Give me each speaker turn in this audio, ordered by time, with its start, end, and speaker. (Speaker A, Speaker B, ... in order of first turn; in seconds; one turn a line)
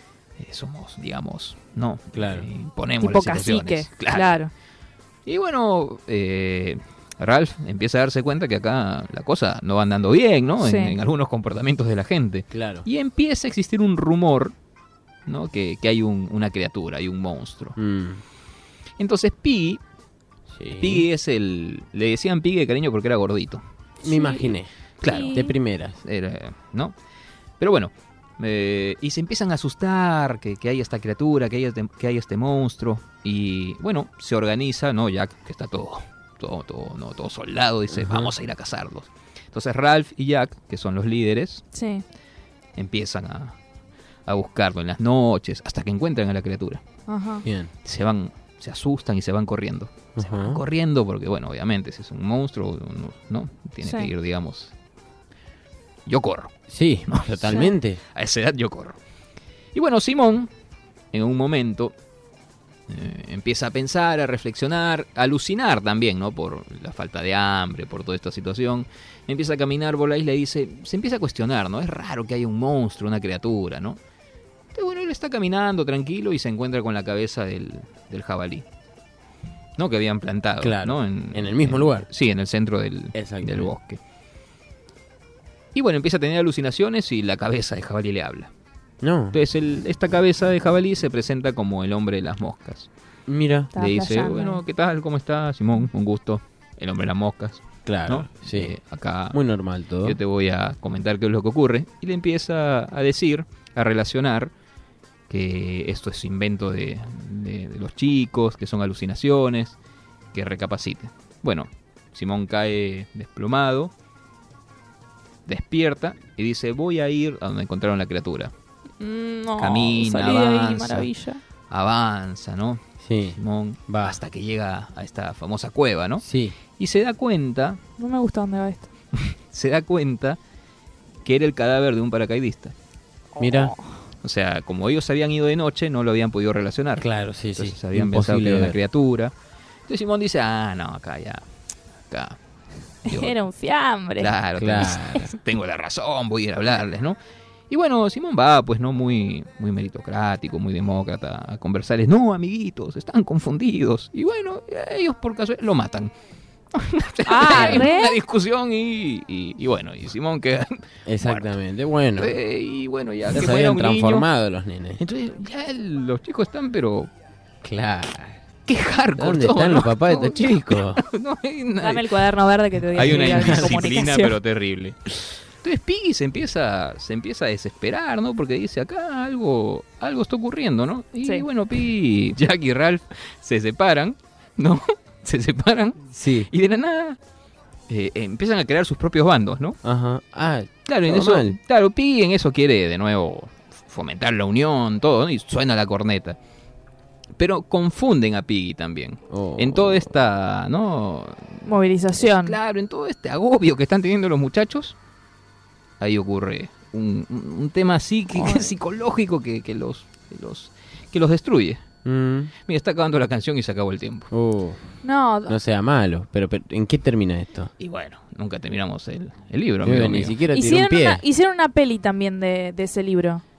Speaker A: 0.4-4.4
Speaker B: 2.1-2.5
Speaker C: 3.0-4.5
Speaker A: 5.2-14.6
Speaker C: 10.6-11.0
Speaker B: 12.5-12.9
Speaker A: 15.2-17.8
Speaker B: 17.8-18.2
Speaker A: 19.0-19.8
Speaker B: 20.5-21.1
Speaker A: 20.8-23.6
Speaker B: 24.0-24.7
Speaker C: 24.0-25.5
Speaker A: 25.0-26.9
Speaker B: 25.3-26.0
Speaker A: 27.6-41.6
Speaker B: 37.9-38.3
Speaker C: 41.7-42.0
Speaker A: 42.8-43.6
Speaker A: 44.2-46.8
Speaker C: 47.1-47.4
Speaker B: 47.4-47.7
Speaker A: 47.8-54.7
Speaker B: 50.2-50.6
Speaker C: 53.8-54.1
Speaker A: 56.1-56.5
Speaker B: 56.7-58.0
Speaker A: 57.1-59.0
Speaker A: 59.7-60.5
Speaker A: 61.1-61.9
Speaker A: 62.9-74.0
Speaker A: 74.7-78.7
Speaker A: 79.8-84.0
Speaker B: 80.6-82.1
Speaker B: 83.1-83.7
Speaker A: 85.8-88.5
Speaker B: 89.0-89.4
Speaker A: 89.3-92.9
Speaker B: 93.3-93.7
Speaker C: 93.7-94.6
Speaker A: 93.8-99.4
Speaker B: 97.9-98.8
Speaker B: 99.3-100.2
Speaker A: 100.0-104.5
Speaker A: 105.3-109.8
Speaker A: 110.3-113.9
Speaker A: 115.5-118.5
Speaker C: 119.0-121.4
Speaker A: 119.6-121.1
Speaker A: 121.7-122.8
Speaker B: 123.0-124.2
Speaker A: 123.4-127.8
Speaker B: 126.2-126.6
Speaker C: 128.0-128.9
Speaker A: 129.1-130.4
Speaker A: 131.2-132.7
Speaker C: 133.3-133.9
Speaker B: 133.4-133.8
Speaker A: 134.2-139.3
Speaker B: 137.0-138.8
Speaker A: 139.9-141.4
Speaker A: 142.1-142.4
Speaker A: 143.1-143.3
Speaker C: 143.1-144.3
Speaker A: 144.2-147.2
Speaker B: 144.6-145.3
Speaker A: 147.7-156.1
Speaker A: 156.7-161.6
Speaker C: 157.3-158.2
Speaker B: 157.5-157.8
Speaker B: 161.1-162.4
Speaker A: 162.2-164.3
Speaker B: 163.3-165.0
Speaker A: 165.0-167.1
Speaker B: 167.6-168.4
Speaker A: 168.7-172.1
Speaker B: 169.2-171.0
Speaker C: 171.8-174.4
Speaker A: 172.9-187.2
Speaker B: 173.0-173.8
Speaker B: 186.1-186.5
Speaker A: 187.9-189.8
Speaker B: 189.8-191.6
Speaker A: 190.8-196.4
Speaker A: 197.4-201.7
Speaker B: 199.3-200.1
Speaker C: 201.7-202.6
Speaker A: 202.2-204.9
Speaker A: 206.0-211.8
Speaker C: 208.3-208.8
Speaker B: 212.1-212.5
Speaker A: 212.7-214.3
Speaker B: 214.3-214.8
Speaker C: 215.0-215.6
Speaker B: 215.4-217.7
Speaker A: 217.8-220.4
Speaker B: 219.8-221.2
Speaker C: 220.5-223.4